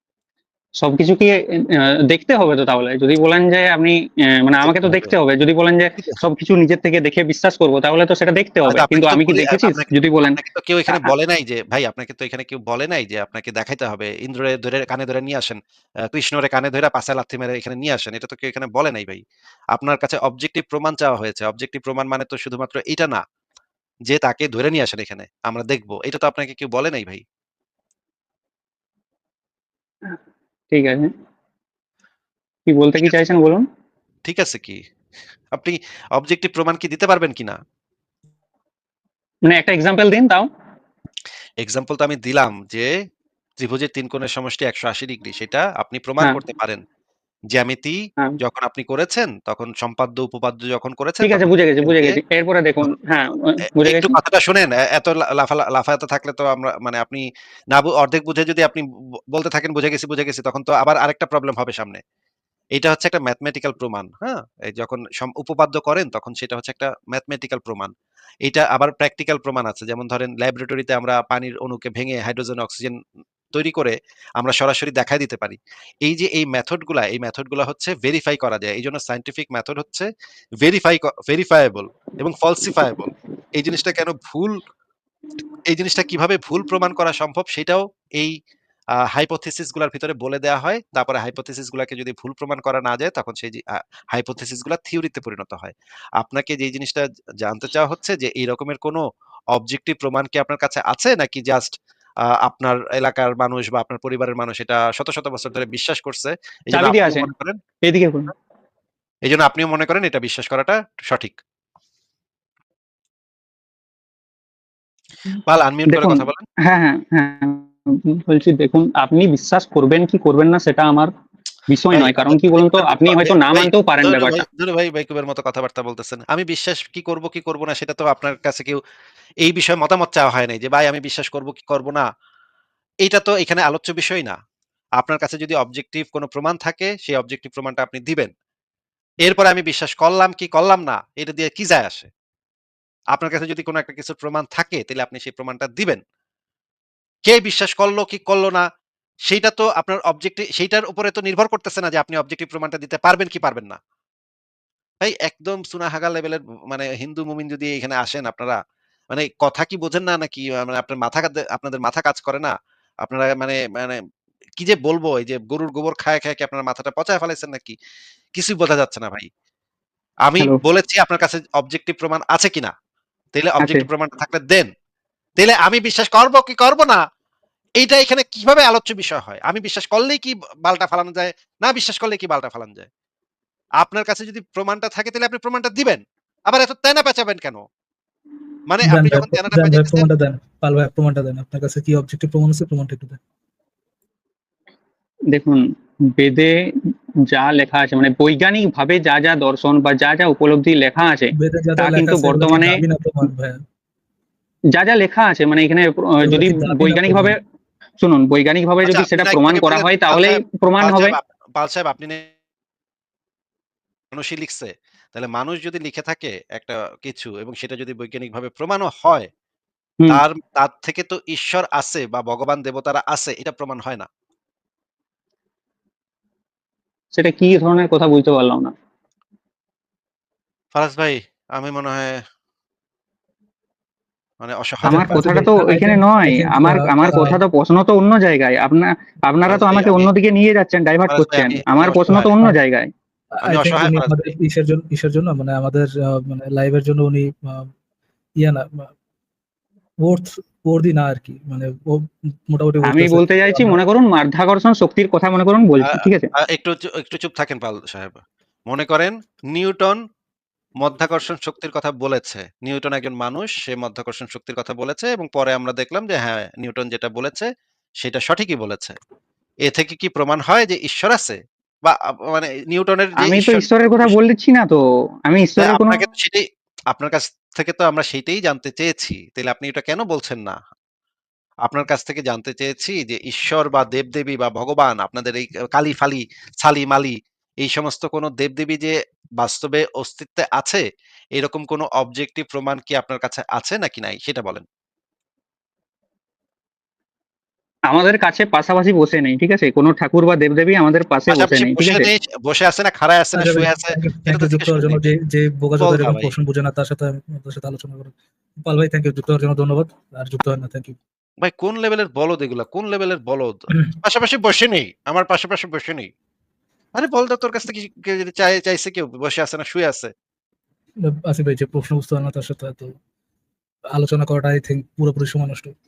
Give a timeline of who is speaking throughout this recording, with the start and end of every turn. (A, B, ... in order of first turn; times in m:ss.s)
0:00.8-0:11.1 A
0:04.6-0:05.1 B
0:08.6-0:19.2 B
0:19.8-0:23.2 B
0:24.1-0:27.2 B
0:30.7-0:31.1 A
0:32.7-0:33.6 A
0:34.2-0:34.8 B
0:35.5-0:37.6 B
0:39.5-0:40.5 A
0:41.6-0:42.9 B
0:43.6-0:46.8 B
0:47.5-0:52.1 B
0:51.2-0:54.2 A
0:53.8-1:02.0 B
1:02.8-1:07.9 B
1:08.4-1:13.0 B
1:13.5-1:20.1 B
1:20.6-1:24.6 B
1:25.7-1:28.3 B
1:29.1-1:39.0 B
1:39.5-1:41.8 B
1:42.4-1:47.6 B
1:46.7-1:47.3 A
1:47.8-1:48.3 A
1:49.3-1:51.4 B
1:55.5-1:56.4 B
1:55.9-2:01.1 A
2:01.7-2:04.4 A
2:01.9-2:08.8 B
2:09.4-2:12.0 B
2:13.0-2:14.4 B
2:15.0-2:18.3 B
2:19.2-2:22.1 B
2:23.1-2:26.0 B
2:27.2-2:28.6 B
2:29.3-2:33.8 B
2:35.0-2:38.6 B
2:39.1-2:42.5 B
2:43.0-2:44.0 B
2:44.6-2:47.8 B
2:48.4-2:49.3 B
2:50.3-2:52.7 B
2:53.4-2:54.7 B
2:55.4-2:57.0 B
2:57.8-3:02.9 B
3:03.8-3:07.7 B
3:08.7-3:10.1 B
3:08.8-3:13.2 C
3:15.3-3:23.3 A
3:21.3-3:23.6 C
3:24.7-3:27.4 A
3:26.2-3:27.4 C
3:28.0-3:31.2 A
3:28.8-3:32.2 B
3:34.1-3:39.3 B
3:40.1-3:44.1 B
3:47.1-3:48.7 A
3:50.7-3:52.2 B
3:54.4-3:55.3 B
3:54.8-3:57.4 C
3:54.9-4:02.9 A
3:59.5-4:00.1 B
4:01.1-4:02.4 B
4:02.1-4:02.6 C
4:03.4-4:07.7 C
4:03.4-4:04.2 B
4:08.4-4:08.9 C
4:10.0-4:13.8 C
4:12.8-4:16.3 A
4:15.8-4:20.0 B
4:20.8-4:27.5 B
4:28.0-4:29.0 B
4:29.7-4:34.2 B
4:33.2-4:36.0 A
4:35.6-4:40.6 B
4:41.6-4:50.8 B
4:51.4-4:54.6 B
4:57.9-5:02.1 A
5:01.3-5:05.0 B
5:03.3-5:11.0 C
5:05.8-5:06.4 B
5:11.4-5:16.1 B
5:17.0-5:20.1 B
5:21.1-5:23.0 C
5:23.9-5:25.7 C